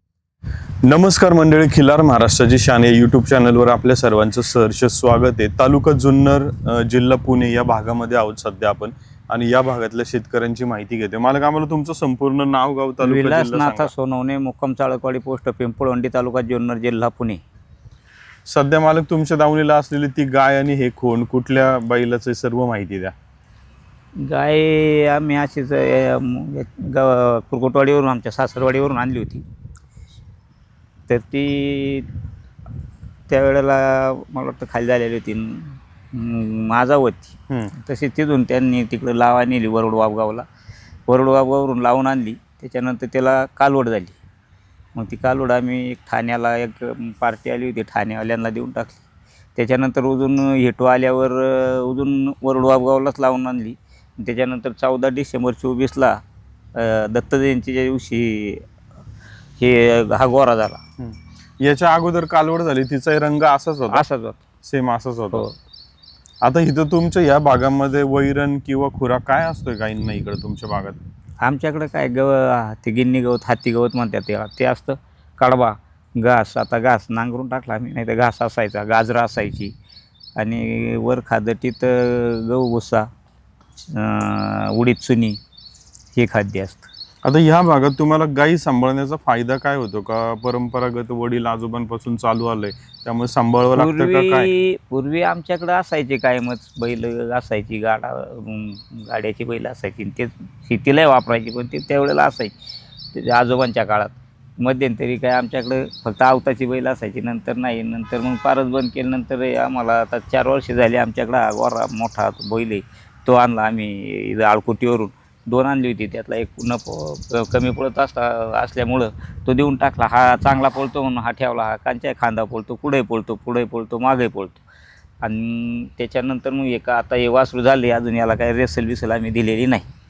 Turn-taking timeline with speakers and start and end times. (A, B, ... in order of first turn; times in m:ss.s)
0:00.8-0:13.9 A
0:13.0-0:17.4 B
0:18.5-0:23.1 A
0:24.2-0:29.4 B
0:31.1-0:32.1 B
0:33.3-0:40.5 B
0:41.1-0:44.2 B
0:45.0-0:49.0 B
0:49.6-0:56.2 B
0:56.8-0:58.6 B
0:59.6-1:00.8 B
1:01.0-1:04.0 A
1:03.9-1:04.4 B
1:04.6-1:05.4 A
1:06.4-1:11.0 A
1:11.4-1:19.7 B
1:20.4-1:23.1 B
1:23.9-1:25.4 B
1:26.2-1:26.9 B
1:27.2-1:34.5 A
1:33.7-1:42.6 B
1:43.1-2:04.6 B
2:05.2-2:09.9 B